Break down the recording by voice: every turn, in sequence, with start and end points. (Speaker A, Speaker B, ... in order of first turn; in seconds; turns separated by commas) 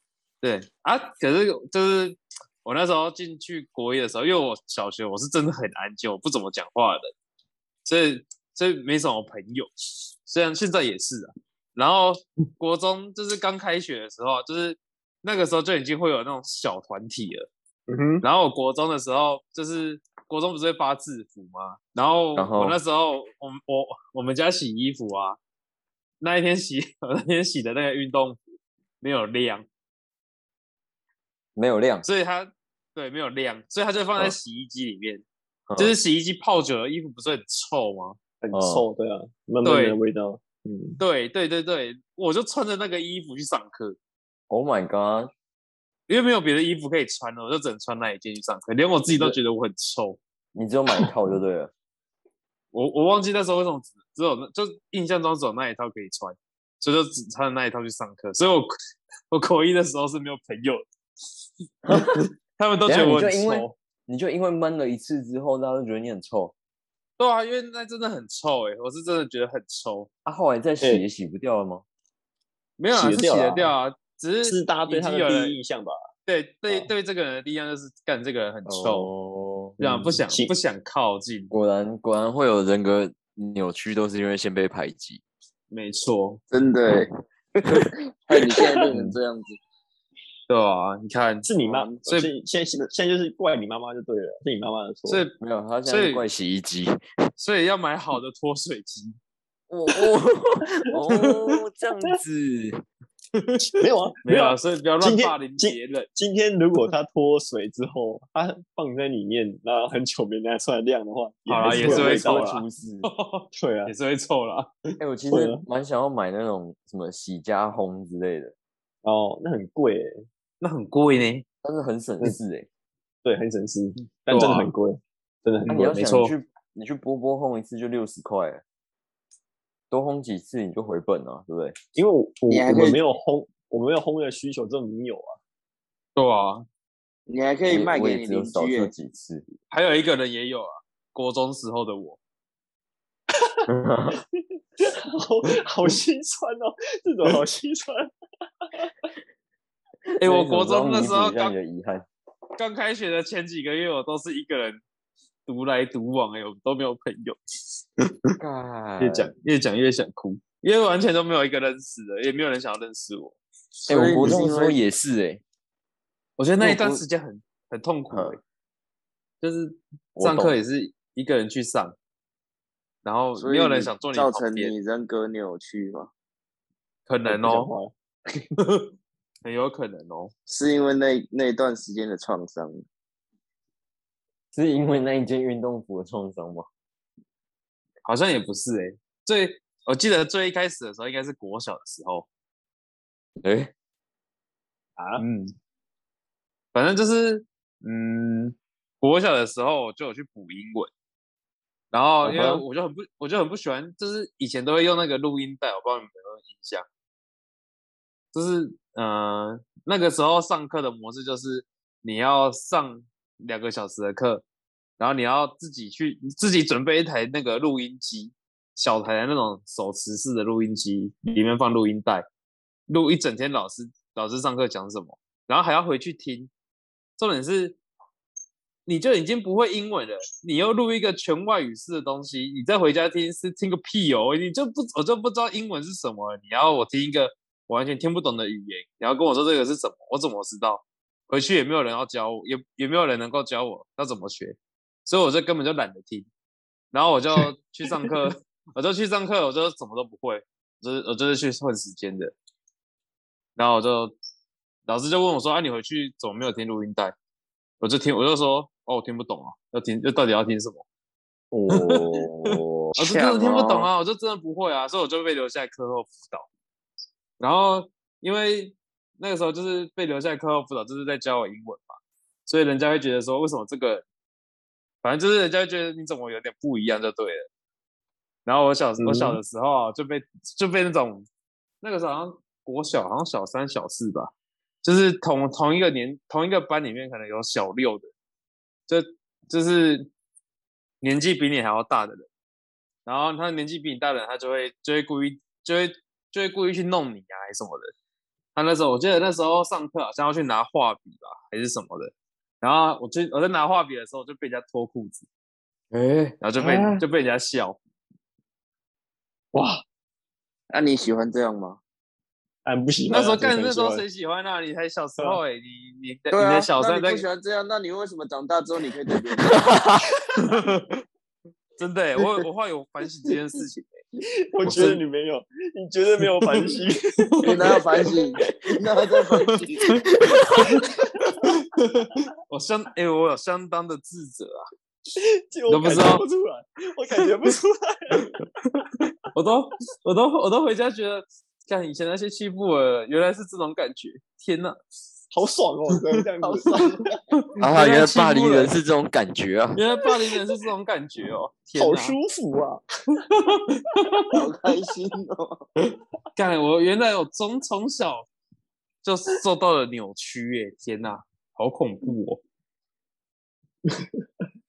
Speaker A: 0.4-7.1, Speaker A: 7.8-17.5, Speaker B: 17.9-18.2, Speaker A: 18.2-25.4, Speaker C: 22.4-22.8, Speaker A: 26.2-28.4, Speaker A: 29.0-29.7, Speaker C: 31.6-32.1, Speaker A: 32.0-35.2, Speaker C: 35.7-35.9, Speaker A: 35.8-38.2, Speaker B: 38.4-41.0, Speaker C: 38.5-38.9, Speaker A: 39.6-40.0, Speaker A: 41.0-44.0, Speaker C: 44.5-45.3, Speaker A: 46.1-50.2, Speaker C: 50.5-51.7, Speaker A: 52.7-58.7, Speaker A: 59.3-60.8, Speaker C: 61.9-62.3, Speaker A: 61.9-63.8, Speaker C: 62.9-66.5, Speaker A: 67.2-70.1, Speaker C: 70.2-71.8, Speaker A: 72.8-75.6, Speaker B: 72.9-73.8, Speaker B: 74.5-76.0, Speaker A: 76.3-79.1, Speaker C: 78.7-79.8, Speaker B: 79.8-80.5, Speaker A: 79.8-81.5, Speaker C: 81.5-85.2, Speaker A: 85.7-86.4, Speaker D: 86.5-89.6, Speaker A: 90.5-91.5, Speaker B: 91.5-95.2, Speaker D: 91.6-92.0, Speaker A: 95.1-96.2, Speaker C: 95.4-97.0, Speaker A: 97.4-99.2, Speaker C: 99.7-102.8, Speaker A: 103.3-103.7, Speaker B: 103.7-112.5, Speaker A: 104.2-106.1, Speaker A: 111.5-114.7, Speaker C: 111.6-113.1, Speaker B: 113.5-113.9, Speaker C: 115.0-118.5, Speaker B: 115.3-115.6, Speaker B: 119.0-120.2, Speaker A: 120.6-121.4, Speaker C: 121.6-122.7, Speaker B: 123.2-126.0, Speaker A: 124.3-124.7, Speaker C: 125.7-128.6, Speaker A: 125.8-126.3, Speaker C: 129.9-131.8, Speaker B: 131.9-135.4, Speaker D: 132.5-133.0, Speaker A: 136.2-136.7, Speaker D: 137.3-138.9, Speaker C: 137.7-139.4, Speaker A: 139.7-142.2, Speaker C: 143.7-144.2, Speaker B: 144.8-148.1, Speaker C: 150.2-152.1, Speaker A: 150.2-151.5, Speaker A: 152.6-154.8, Speaker A: 155.5-157.4, Speaker C: 158.4-159.3, Speaker A: 159.0-163.4, Speaker D: 163.9-164.8, Speaker C: 163.9-165.4, Speaker A: 166.4-168.4, Speaker C: 166.6-167.0, Speaker C: 168.1-168.4, Speaker A: 169.4-171.9, Speaker C: 170.2-170.6, Speaker A: 173.1-174.7, Speaker D: 173.4-176.1, Speaker A: 177.1-177.7, Speaker B: 177.3-177.9, Speaker A: 178.6-178.9, Speaker A: 179.4-180.3, Speaker D: 180.5-182.8, Speaker C: 184.5-186.7, Speaker A: 188.1-192.3, Speaker C: 193.4-193.7, Speaker B: 195.0-195.2, Speaker A: 195.2-195.5, Speaker A: 196.7-200.9, Speaker A: 201.9-206.9, Speaker C: 202.2-202.6, Speaker A: 208.3-214.4, Speaker A: 215.0-222.2, Speaker A: 222.9-226.5, Speaker A: 227.2-227.8, Speaker A: 228.9-246.3, Speaker A: 246.9-252.3, Speaker A: 253.6-254.2, Speaker A: 254.9-257.1, Speaker A: 257.8-260.8, Speaker C: 261.5-263.9, Speaker A: 261.7-266.5, Speaker A: 267.4-274.1, Speaker A: 275.0-277.5, Speaker A: 278.5-281.3, Speaker B: 279.0-279.4, Speaker A: 281.8-284.3, Speaker A: 284.8-288.1, Speaker A: 288.9-290.1, Speaker A: 291.0-292.3, Speaker A: 293.1-297.9, Speaker A: 298.6-305.3, Speaker C: 305.9-306.4, Speaker A: 306.4-307.8, Speaker B: 306.6-307.0, Speaker B: 309.5-309.8, Speaker D: 310.7-311.8, Speaker B: 312.6-314.0, Speaker A: 313.1-317.2, Speaker D: 316.3-319.6, Speaker C: 319.5-320.1, Speaker A: 320.4-321.0, Speaker A: 321.8-323.9, Speaker B: 324.5-327.4, Speaker A: 324.6-325.0, Speaker A: 327.2-327.8, Speaker D: 327.4-330.1, Speaker A: 329.5-334.6, Speaker C: 330.3-330.7, Speaker B: 331.0-331.6, Speaker B: 335.2-338.3, Speaker A: 335.7-336.2, Speaker A: 338.2-344.8, Speaker B: 345.3-347.1, Speaker D: 346.4-347.0, Speaker A: 347.4-348.7, Speaker C: 347.6-349.8, Speaker A: 349.8-352.2, Speaker B: 351.8-352.8, Speaker A: 353.2-354.3, Speaker D: 354.3-355.6, Speaker A: 356.4-358.3, Speaker A: 359.0-362.4